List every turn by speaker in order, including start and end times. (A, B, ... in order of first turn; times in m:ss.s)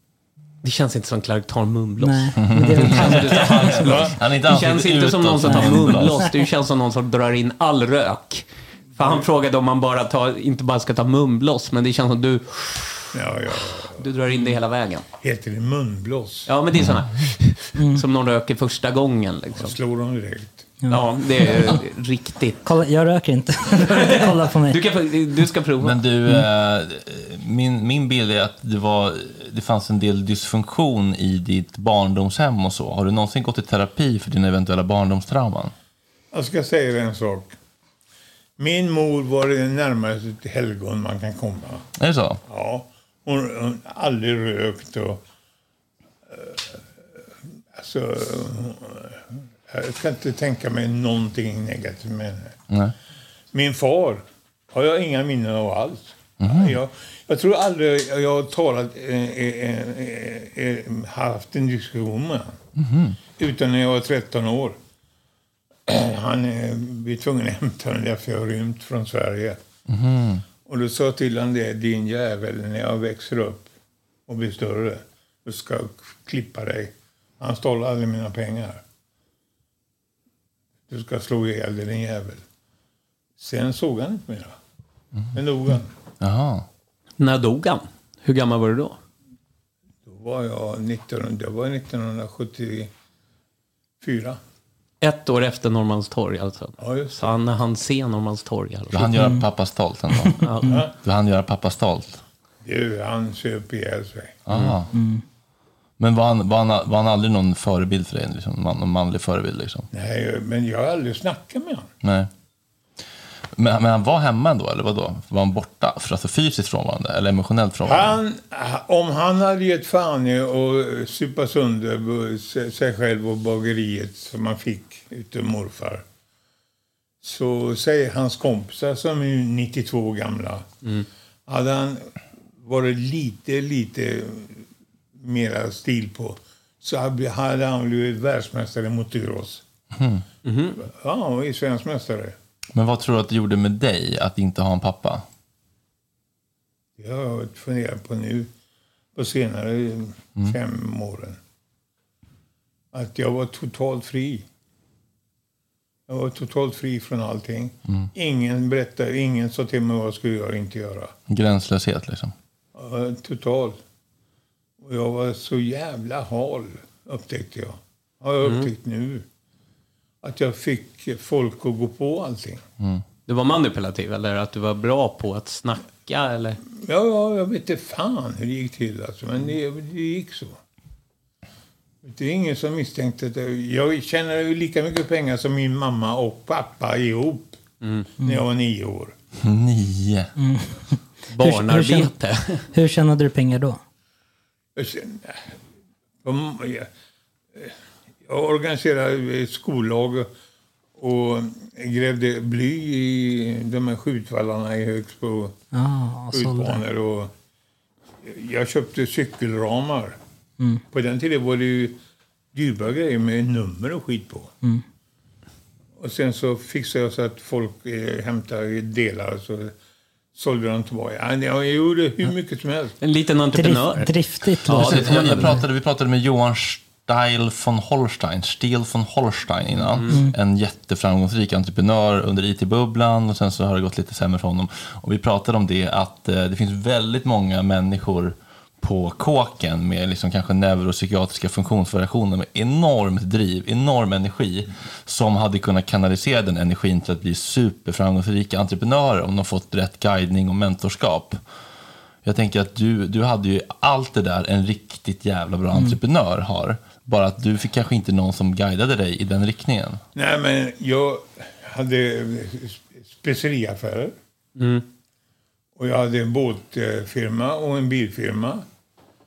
0:00.6-0:13.0 A
0:02.0-0:03.5 B
0:02.4-0:06.3 C
0:03.8-0:04.1 D
0:05.5-0:06.2 B
0:09.0-0:09.2 D
0:13.1-0:14.1 D
0:13.9-0:15.0 A
0:15.2-0:16.5 D
0:16.5-0:19.8 A
0:17.8-0:18.0 B
0:19.6-0:20.7 D
0:20.8-0:21.8 B
0:20.9-0:22.6 A
0:22.6-0:24.8 B
0:23.7-0:26.0 A
0:25.8-0:35.7 C
0:36.3-0:37.6 D
0:38.6-0:41.9 D
0:42.0-0:42.4 C
0:42.5-0:45.2 D
0:46.3-0:46.9 D
0:47.7-0:52.6 D
0:53.5-1:02.6 D
0:56.4-0:56.7 C
1:02.8-1:03.2 C
1:03.3-1:04.8 D
1:05.9-1:09.6 D
1:09.9-1:10.4 C
1:10.6-1:13.7 D
1:14.3-1:18.8 D
1:20.9-1:22.4 D
1:23.4-1:24.6 D
1:25.3-1:25.9 D
1:26.2-1:26.6 C
1:27.2-1:29.0 A
1:30.0-1:32.9 D
1:34.0-1:34.4 D
1:35.0-1:39.3 A
1:36.8-1:37.3 D
1:38.9-1:40.5 C
1:39.2-1:39.4 B
1:40.2-1:40.8 B
1:40.4-1:40.8 A
1:40.7-1:40.9 D
1:41.0-1:42.2 C
1:42.6-1:44.4 D
1:44.5-1:44.9 C
1:44.9-1:45.2 B
1:46.0-1:49.9 C
1:49.9-1:51.9 D
1:52.0-1:52.3 C
1:53.6-1:58.2 C
1:57.8-2:06.0 D
2:07.2-2:10.7 D
2:11.5-2:19.6 D
2:19.9-2:20.2 C
2:20.4-2:20.8 A
2:20.8-2:22.4 D
2:22.7-2:25.2 C
2:27.0-2:28.5 D
2:29.1-2:31.4 D
2:32.9-2:34.4 D
2:36.1-2:41.1 D
2:41.3-2:42.3 C
2:42.7-2:43.8 D
2:44.8-2:49.2 D
2:48.4-2:48.7 A
2:50.2-2:52.6 D
2:53.3-2:56.6 A
2:56.7-3:00.6 D
3:02.0-3:07.6 D
3:07.8-3:08.1 A
3:08.2-3:09.1 D
3:09.4-3:10.3 C
3:10.4-3:12.1 B
3:11.3-3:12.7 A
3:12.7-3:13.8 B
3:14.8-3:15.5 D
3:16.2-3:16.9 D
3:17.5-3:20.3 D
3:21.0-3:25.6 D
3:25.7-3:26.8 B
3:26.3-3:27.3 D
3:28.2-3:30.2 D
3:30.9-3:32.0 D
3:32.5-3:34.5 D
3:36.0-3:39.7 D
3:40.3-3:43.0 D
3:43.0-3:45.6 A
3:43.5-3:45.6 B
3:44.6-4:11.4 C
4:12.2-4:20.0 C
4:20.1-4:24.1 D
4:24.6-4:24.8 A
4:25.8-4:28.7 D